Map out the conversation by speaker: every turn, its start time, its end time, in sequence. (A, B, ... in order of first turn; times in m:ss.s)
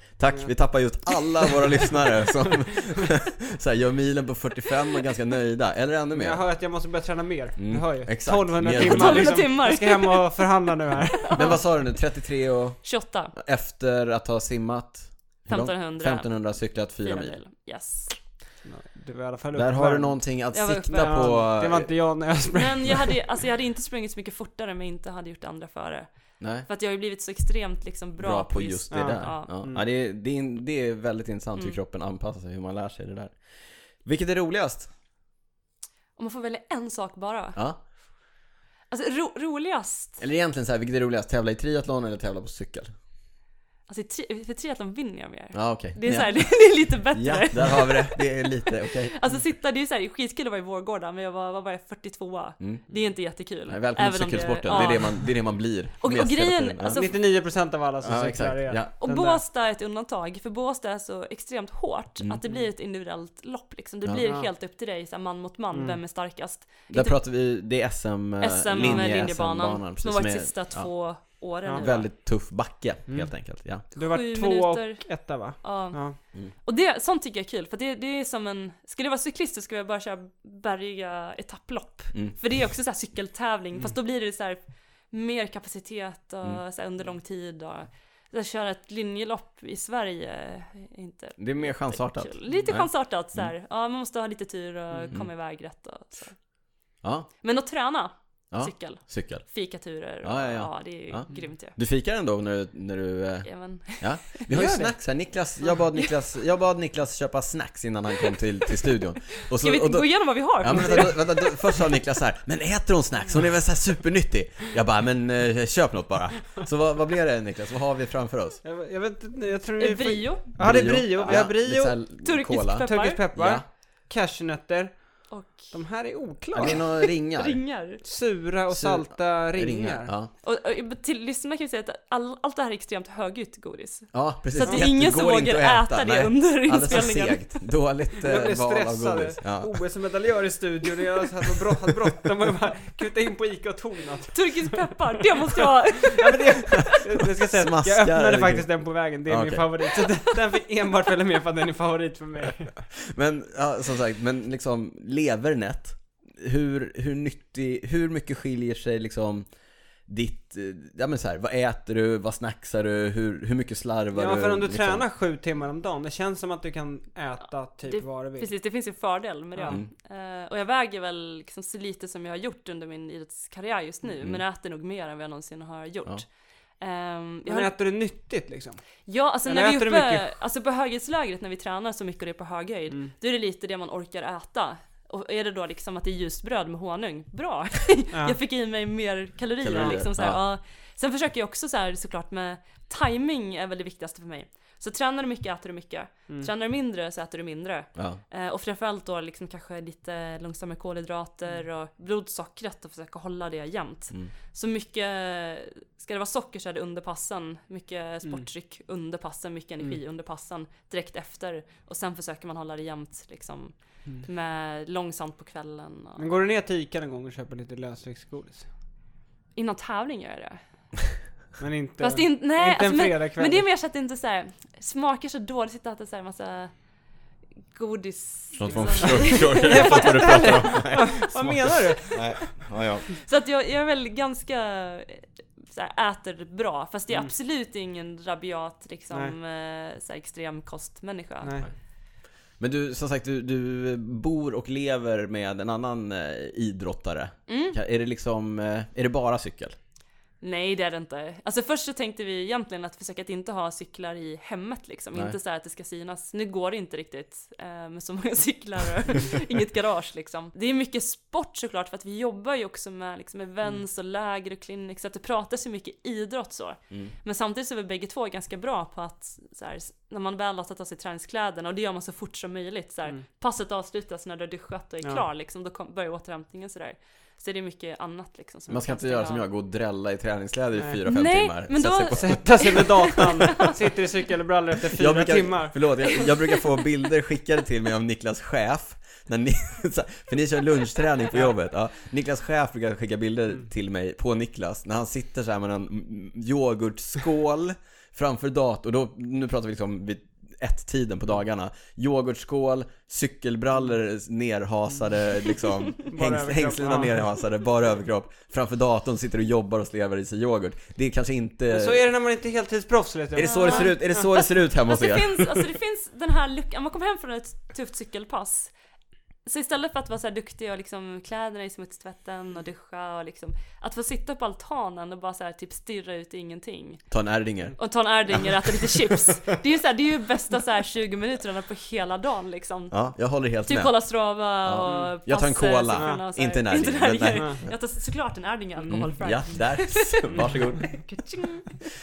0:00.2-0:06.4 A
0:06.1-0:11.6 B
0:07.6-0:09.4 A
0:08.7-0:10.3 C
0:11.1-0:11.6 C
0:11.3-0:17.4 A
0:12.8-0:13.3 C
0:15.5-0:18.2 C
0:18.6-0:20.2 B
0:19.5-0:21.9 A
0:20.5-0:21.4 C
0:20.9-0:23.2 B
0:22.5-0:29.5 C
0:26.4-0:26.7 A
0:28.2-0:33.4 A
0:28.9-0:29.8 B
0:34.0-0:34.9 A
0:36.2-0:37.6 C
0:38.9-0:40.2 C
0:40.2-0:42.9 A
0:43.9-0:55.4 C
0:45.5-0:49.1 A
0:52.6-0:52.8 A
0:53.7-0:57.0 A
0:56.0-0:57.1 C
0:56.9-0:59.4 B
0:58.0-0:58.9 A
0:59.0-1:07.2 C
1:04.2-1:04.5 B
1:05.7-1:06.0 B
1:06.9-1:10.9 A
1:08.4-1:12.1 C
1:08.8-1:09.1 B
1:11.8-1:13.8 A
1:13.8-1:16.2 B
1:14.0-1:16.1 C
1:16.6-1:24.6 C
1:25.1-1:36.4 C
1:31.4-1:33.5 A
1:37.0-1:37.3 A
1:37.4-1:41.8 C
1:38.5-1:39.4 A
1:40.2-1:58.6 A
1:43.4-1:44.4 C
1:44.5-1:44.9 B
1:49.5-1:51.8 C
1:58.6-2:02.0 B
1:59.8-2:00.5 C
2:00.6-2:03.6 A
2:02.2-2:03.2 C
2:02.8-2:06.9 B
2:05.3-2:05.7 C
2:06.5-2:07.6 A
2:06.6-2:08.0 C
2:08.0-2:10.1 B
2:08.7-2:10.3 A
2:10.4-2:17.6 C
2:14.1-2:19.7 A
2:14.6-2:14.9 B
2:18.2-2:24.8 B
2:24.3-2:27.0 C
2:25.6-2:32.7 B
2:26.8-2:28.7 A
2:29.2-2:29.7 A
2:32.9-2:39.5 A
2:40.1-2:45.0 A
2:44.1-2:48.5 B
2:47.9-2:56.2 C
2:56.8-2:57.7 C
2:57.4-2:58.8 B
2:59.1-3:36.3 C
2:59.4-3:00.3 B
3:09.6-3:10.4 A
3:36.2-3:38.7 B
3:39.5-3:40.6 C
3:41.6-3:43.6 B
3:42.0-3:46.7 C
3:47.7-3:52.5 C
3:48.6-3:53.0 A
3:49.0-3:52.2 B
3:53.1-4:01.6 C
4:01.4-4:01.7 B
4:02.6-4:09.8 A
4:07.5-4:07.8 C
4:10.4-4:39.4 C
4:38.7-4:43.2 A
4:41.0-4:43.8 C
4:42.1-4:45.8 B
4:44.9-5:12.1 A
5:06.0-5:07.2 B
5:11.7-5:14.0 B
5:13.3-5:15.7 A
5:13.4-5:18.7 C
5:19.4-5:27.0 C
5:27.1-5:27.8 A
5:27.8-5:33.0 C
5:28.3-5:29.3 A
5:32.9-5:33.9 A
5:33.6-5:41.8 C
5:34.6-5:37.7 A
5:34.8-5:35.1 B
5:35.9-5:36.2 B
5:38.9-5:40.9 A